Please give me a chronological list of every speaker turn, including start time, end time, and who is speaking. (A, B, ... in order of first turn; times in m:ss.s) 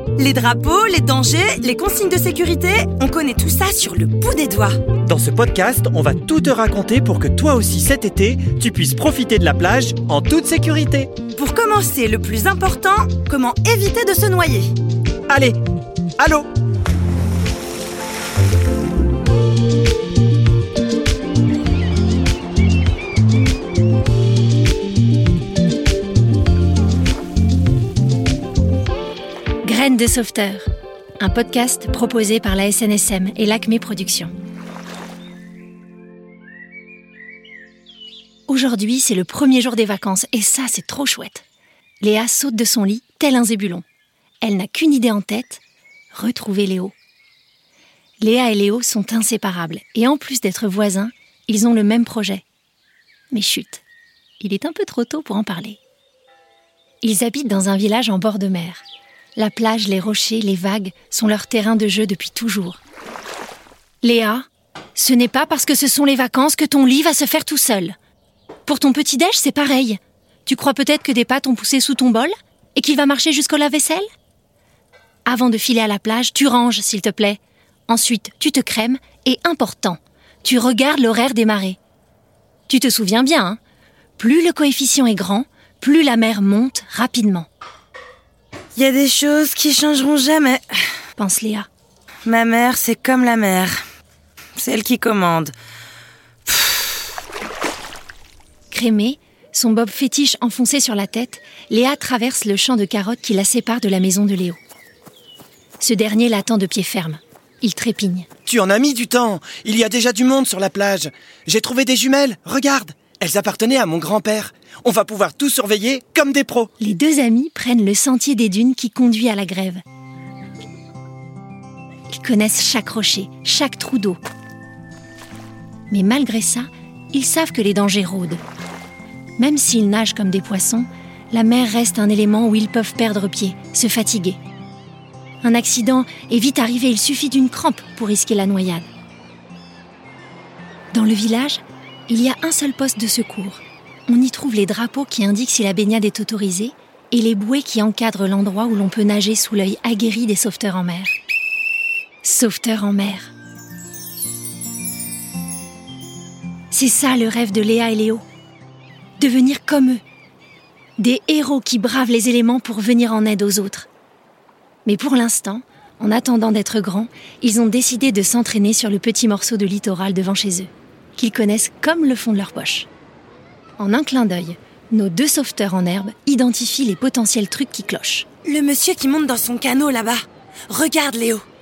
0:00.2-0:04.8 A
0:05.0-0:11.1 B
0:11.3-0:14.7 A
0:15.3-0:15.6 B
0:16.2-0:16.5 B
0:29.6-0:30.6 C
0:31.2-0:34.3 C
0:38.5-0:41.4 C
0:42.0-0:43.8 C
0:44.4-0:45.6 C
0:46.1-0:46.9 C
0:48.2-0:52.4 C
0:53.3-0:53.8 C
0:54.4-0:55.8 C
0:57.0-0:58.8 C
0:59.4-1:02.8 C
1:04.0-1:07.9 C
1:08.6-1:14.0 C
1:15.3-1:21.8 C
1:22.7-1:23.6 C
1:24.2-1:27.5 C
1:28.8-1:30.6 A
1:31.2-1:31.7 C
1:32.2-1:33.8 A
1:34.5-1:35.5 A
1:36.4-1:36.9 A
1:38.7-1:44.6 C
1:45.8-1:48.3 C
1:48.4-1:56.7 D
1:56.8-1:59.8 C
2:02.1-2:04.2 C
2:05.9-2:08.4 C
2:09.4-2:14.4 C
2:15.4-2:18.9 C
2:20.9-2:31.1 C
2:32.2-2:33.3 C
2:36.7-2:38.2 C
2:39.2-2:40.0 C
2:41.0-2:43.9 C
2:44.8-2:52.9 C
2:53.8-2:58.3 C
2:58.4-3:01.4 A